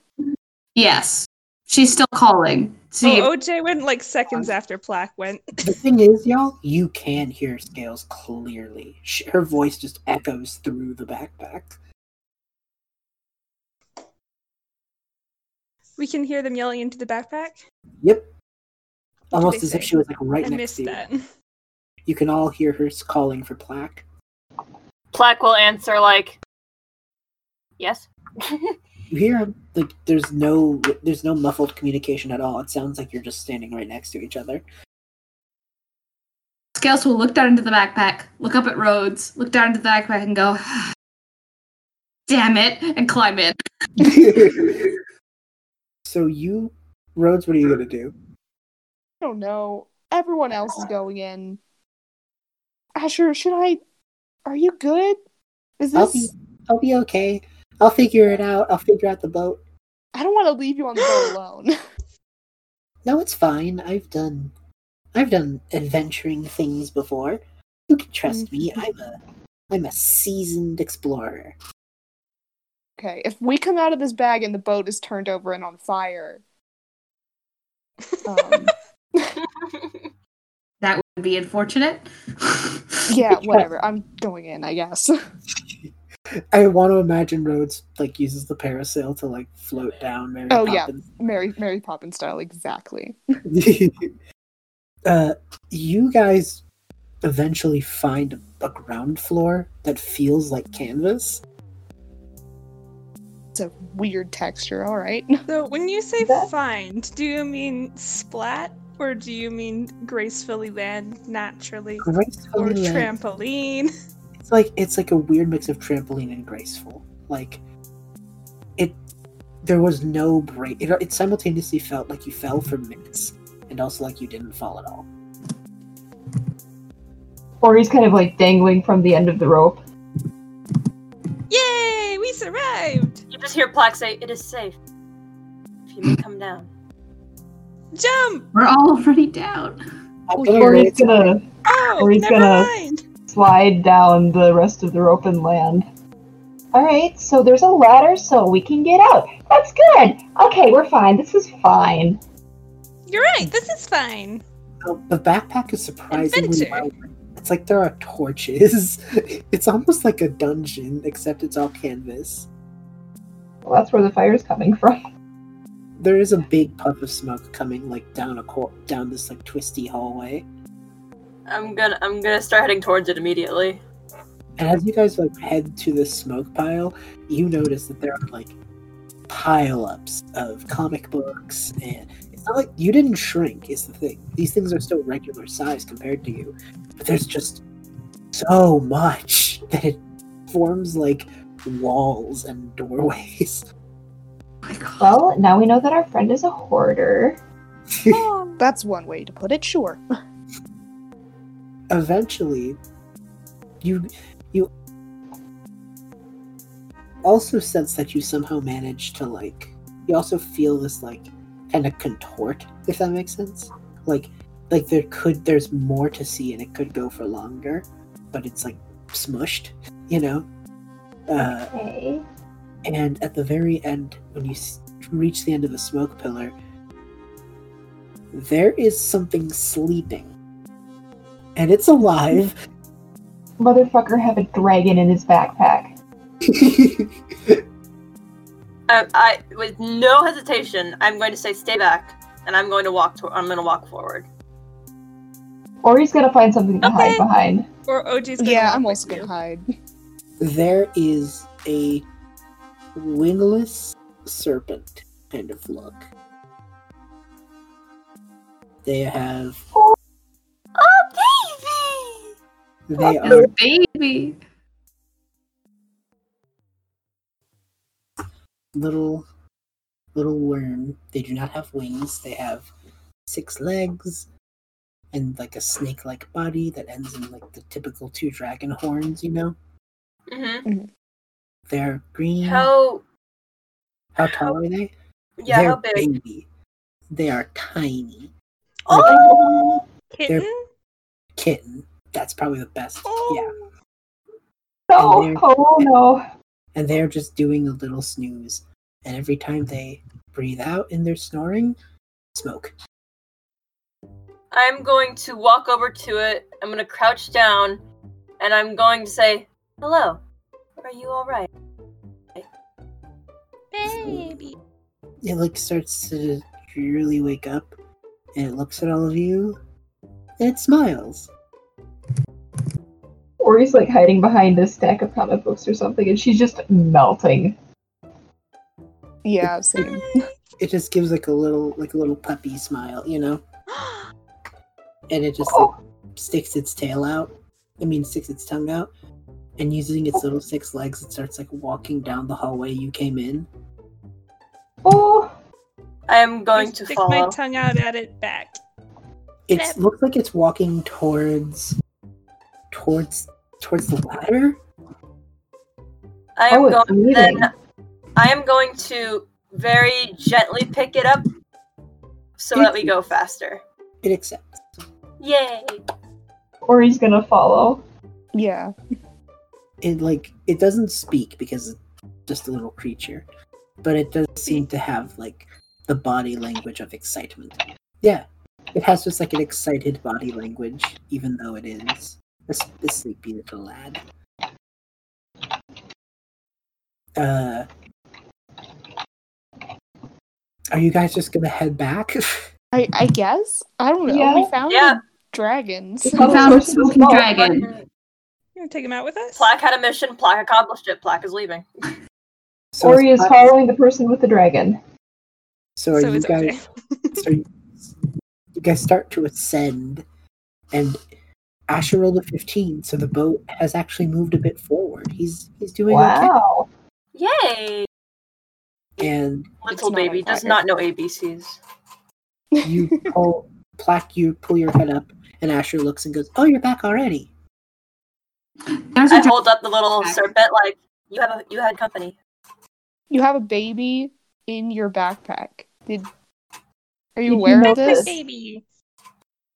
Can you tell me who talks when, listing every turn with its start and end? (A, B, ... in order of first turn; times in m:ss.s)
0:00.8-0:03.3 A
0:03.0-0:05.7 B
0:05.6-0:11.8 C
0:16.0-0:17.6 B
0:18.0-0:18.3 C
0:19.3-0:21.0 C
0:19.3-0:19.9 B
0:20.4-0:21.2 B
0:22.1-0:24.0 C
0:25.1-0:26.4 D
0:27.8-0:28.8 D
0:29.1-0:34.6 C
0:36.8-0:40.9 A
0:42.3-0:43.6 A
0:44.0-0:44.9 C
0:46.1-0:48.1 C
0:49.2-0:51.6 E
0:53.0-0:53.8 E
0:54.5-0:55.2 E
0:55.8-0:56.3 E
0:55.9-0:59.6 C
1:00.2-1:01.7 E
1:03.0-1:04.5 C
1:05.1-1:09.2 C
1:09.7-1:11.6 C
1:13.0-1:16.4 E
1:18.2-1:19.4 E
1:19.4-1:20.0 D
1:20.8-1:23.0 A
1:23.1-1:25.2 E
1:23.3-1:23.7 C
1:25.6-1:25.9 C
1:26.5-1:31.1 C
1:30.5-1:33.2 E
1:33.5-1:34.1 C
1:35.1-1:36.6 C
1:37.2-1:41.4 C
1:43.6-1:45.4 E
1:45.5-1:53.9 B
1:46.2-1:46.5 F
1:52.0-1:53.1 C
1:54.4-1:57.6 C
1:59.6-2:05.1 C
2:07.6-2:09.8 F
2:11.5-2:13.2 B
2:13.3-2:14.8 D
2:15.9-2:16.7 D
2:18.0-2:18.5 B
2:18.5-2:19.8 A
2:20.3-2:21.3 C
2:20.5-2:22.8 F
2:21.7-2:23.0 B
2:23.3-2:25.9 F
2:26.7-2:32.2 F
2:33.1-2:34.4 B
2:34.8-2:42.5 C
2:36.1-2:36.9 B
2:43.6-2:45.0 F
2:46.0-2:50.5 C
2:51.5-2:53.8 D
2:54.6-2:58.6 C
2:59.3-3:07.6 C
3:08.3-3:13.7 C
3:14.7-3:15.1 A
3:15.0-3:17.4 F
3:17.9-3:18.3 C
3:18.1-3:18.6 B
3:18.6-3:20.0 E
3:21.9-3:22.8 C
3:23.8-3:24.7 C
3:27.2-3:40.5 C
3:41.3-3:41.7 C
3:41.4-3:42.2 F
3:42.9-3:46.5 C
3:48.3-3:50.3 C
3:51.6-3:52.6 C
3:53.6-3:55.9 F
3:56.4-3:57.6 C
3:58.9-4:04.3 D
4:05.8-4:07.7 F
4:06.8-4:07.2 D
4:07.9-4:09.3 B
4:08.4-4:09.7 E
4:10.4-4:12.0 C
4:13.0-4:16.1 C
4:18.8-4:19.6 C
4:20.8-4:22.3 D
4:22.9-4:23.5 C
4:23.2-4:24.4 A
4:28.7-4:29.3 C
4:30.1-4:32.7 C
4:33.3-4:34.3 C
4:35.1-4:39.6 C
4:40.3-4:40.7 D
4:41.7-4:42.7 C
4:42.4-4:43.0 D
4:44.2-4:44.9 C
4:44.2-4:44.6 D
4:45.4-4:46.1 D
4:45.5-4:46.5 C
4:47.1-4:48.3 C
4:48.9-4:49.7 C
4:49.0-4:49.5 B
4:49.2-4:49.7 F
4:50.1-4:50.6 B
4:51.4-4:53.5 C
4:53.0-4:53.7 B
4:54.9-4:56.2 F
4:55.0-4:55.9 C
4:56.8-5:01.8 C
5:02.3-5:02.8 C
5:04.5-5:07.8 D
5:08.4-5:10.2 D
5:10.8-5:11.5 D
5:13.7-5:14.6 B
5:13.8-5:14.5 C
5:15.2-5:17.8 C
5:18.4-5:19.6 C
5:20.4-5:21.3 C
5:23.4-5:27.6 F
5:29.2-5:30.2 E
5:30.6-5:33.4 C
5:33.8-5:34.0 B
5:35.1-5:38.9 C
5:35.4-5:35.8 F
5:39.6-5:43.5 C
5:44.8-5:45.3 F
5:46.1-5:47.4 D
5:46.5-5:48.6 B
5:49.5-5:51.8 C
5:49.5-5:49.8 B
5:52.7-5:54.6 C
5:56.4-5:57.5 D
5:56.5-5:57.5 F
5:58.2-6:01.2 D
6:02.4-6:03.6 D
6:02.5-6:03.0 C
6:04.0-6:04.6 C
6:05.2-6:05.8 D
6:06.6-6:07.8 F
6:08.3-6:08.7 E
6:09.8-6:13.3 C
6:13.8-6:24.0 C
6:27.2-6:27.7 C
6:30.7-6:32.5 C
6:32.7-6:36.6 E
6:34.1-6:34.5 F
6:34.7-6:35.0 D
6:36.0-6:37.3 F
6:36.2-6:37.7 A
6:37.3-6:37.8 D
6:38.6-6:39.5 B
6:39.4-6:41.7 D
6:42.7-6:43.5 C
6:42.8-6:44.8 F
6:45.8-6:46.6 C
6:45.9-6:47.2 B
6:47.2-6:48.0 C
6:48.6-6:50.0 C
6:50.7-6:51.0 C
6:51.7-6:56.3 C
6:55.9-6:56.7 F
6:57.1-6:57.9 D
6:59.0-6:59.5 C
6:59.6-7:01.6 D
6:59.7-7:00.6 E
7:02.5-7:03.1 E
7:02.6-7:07.3 C
7:08.7-7:09.4 A
7:09.1-7:12.2 D
7:10.0-7:10.3 A
7:13.1-7:16.1 E
7:17.2-7:18.1 E
7:17.3-7:18.2 F
7:17.7-7:18.6 B